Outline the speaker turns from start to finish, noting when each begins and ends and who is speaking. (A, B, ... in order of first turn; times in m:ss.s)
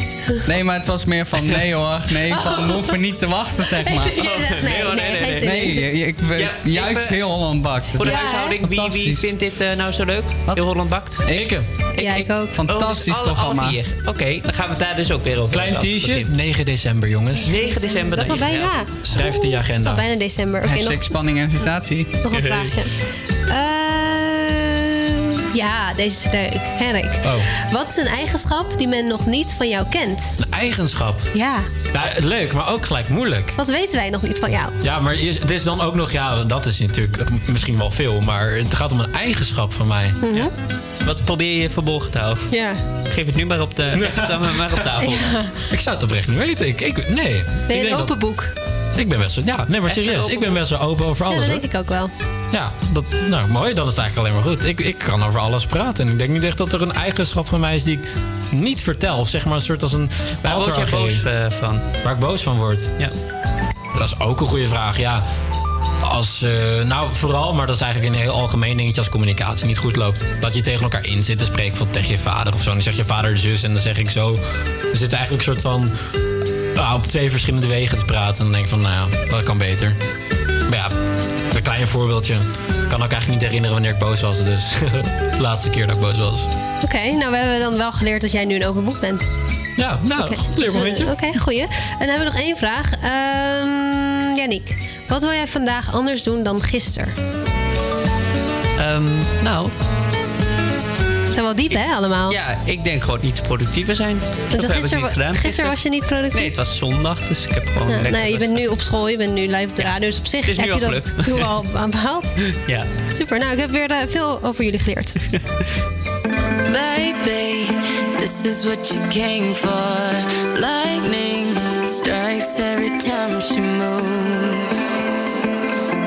0:00.4-0:04.2 A
0:02.3-0:02.8 B
0:03.8-0:05.9 B
0:04.2-0:05.7 C
0:05.2-0:09.3 A
0:06.4-0:07.2 C
0:07.9-0:11.2 C
0:08.0-0:08.6 B
0:10.5-0:10.7 A
0:11.2-0:11.5 A
0:11.3-0:11.7 D
0:12.0-0:12.6 B
0:12.0-0:16.3 C
0:12.5-0:13.8 A
0:15.5-0:17.6 D
0:17.5-0:18.9 C
0:17.5-0:18.9 B
0:18.3-0:20.0 D
0:19.8-0:21.1 B
0:20.6-0:22.1 A
0:22.2-0:30.4 B
0:22.3-0:22.8 C
0:27.2-0:27.5 D
0:30.4-0:31.3 D
0:31.3-0:31.7 B
0:31.9-0:33.6 D
0:33.6-0:34.8 B
0:34.8-0:40.4 D
0:40.2-0:40.5 B
0:41.0-0:42.5 C
0:42.5-0:42.8 B
0:43.1-0:45.3 C
0:44.0-0:44.8 D
0:45.0-0:45.5 B
0:45.7-0:48.1 D
0:47.7-0:48.5 B
0:49.0-0:51.6 D
0:49.8-0:50.6 C
0:51.3-0:52.1 B
0:52.5-1:01.2 D
1:00.4-1:01.9 C
1:02.0-1:02.9 D
1:04.0-1:05.2 D
1:06.0-1:15.9 D
1:16.8-1:20.0 D
1:20.7-1:21.0 D
1:21.5-1:26.5 D
1:26.8-1:29.3 B
1:29.8-1:31.1 D
1:30.2-1:37.2 B
1:38.8-1:39.7 C
1:41.3-1:42.4 B
1:42.3-1:45.8 C
1:44.5-1:46.5 B
1:46.3-1:48.6 C
1:47.9-1:52.4 B
1:50.4-1:51.5 C
1:52.6-1:52.9 C
1:53.1-1:55.2 B
1:56.7-2:04.8 E